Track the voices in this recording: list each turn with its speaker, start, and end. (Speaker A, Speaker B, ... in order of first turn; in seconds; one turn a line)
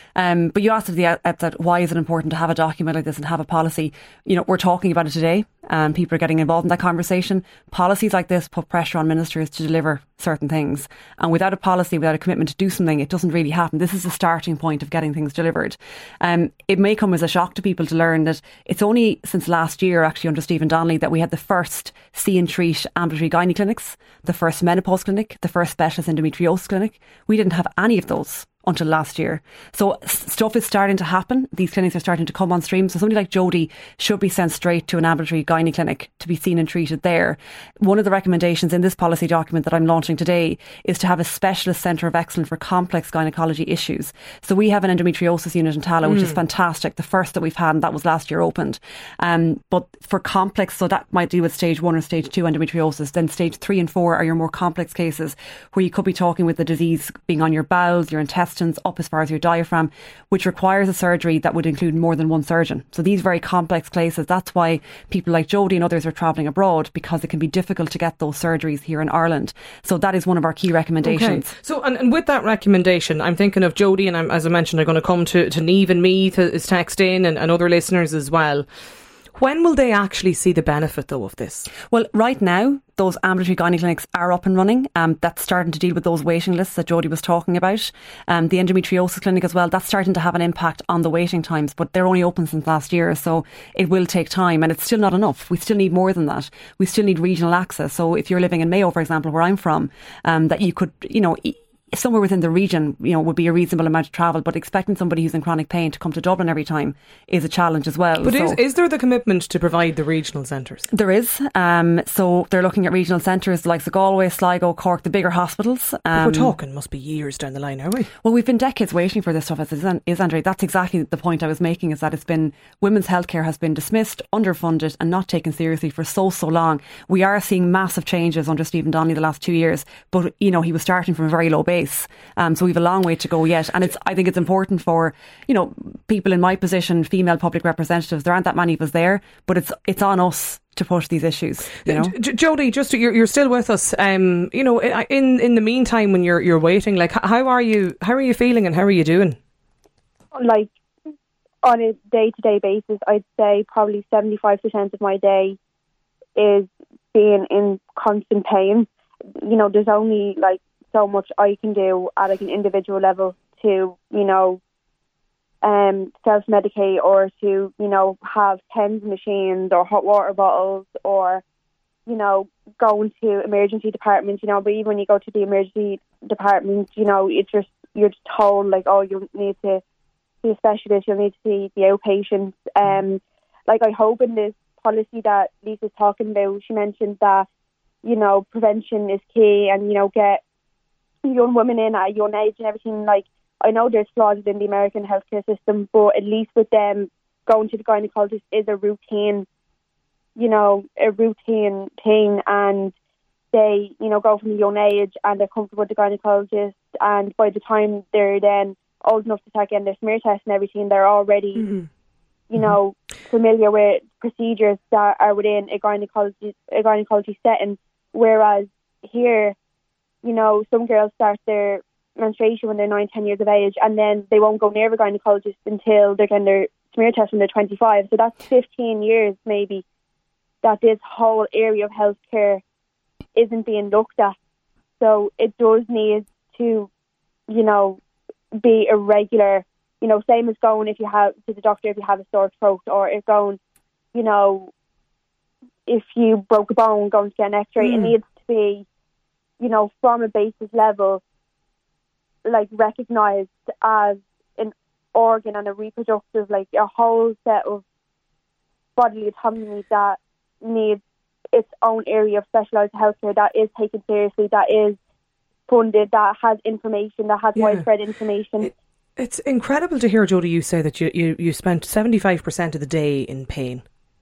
Speaker A: 0.1-71.5
Speaker B: 46.0-46.4
Speaker B: 71.0-78.7
Speaker B: 79.3-81.7
Speaker A: 81.9-108.6
Speaker B: 108.2-110.9
Speaker A: 110.9-116.5
Speaker B: 116.1-118.1
Speaker A: 118.2-142.1
Speaker B: 141.8-149.4
Speaker C: 150.3-150.7
Speaker C: 151.6-155.6
Speaker C: 156.3-158.9
Speaker C: 159.4-164.6
Speaker C: 165.6-171.4
Speaker C: 172.1-179.8
Speaker C: 180.4-187.4
Speaker C: 188.0-190.4
Speaker C: 191.2-199.4
Speaker C: 200.3-202.9
Speaker C: 203.5-211.7
Speaker C: 212.5-219.5
Speaker C: 220.2-229.8
Speaker C: 230.6-232.6
Speaker C: 233.3-234.3
Speaker C: 235.0-236.9
Speaker C: 237.5-238.0
Speaker C: 238.6-243.6
Speaker C: 244.1-244.7
Speaker C: 245.8-248.8
Speaker B: 247.8-248.1
Speaker C: 249.6-251.2
Speaker C: 252.4-257.8
Speaker C: 258.9-261.0
Speaker C: 261.5-265.0
Speaker C: 265.7-268.7
Speaker B: 267.6-267.8
Speaker B: 268.6-273.8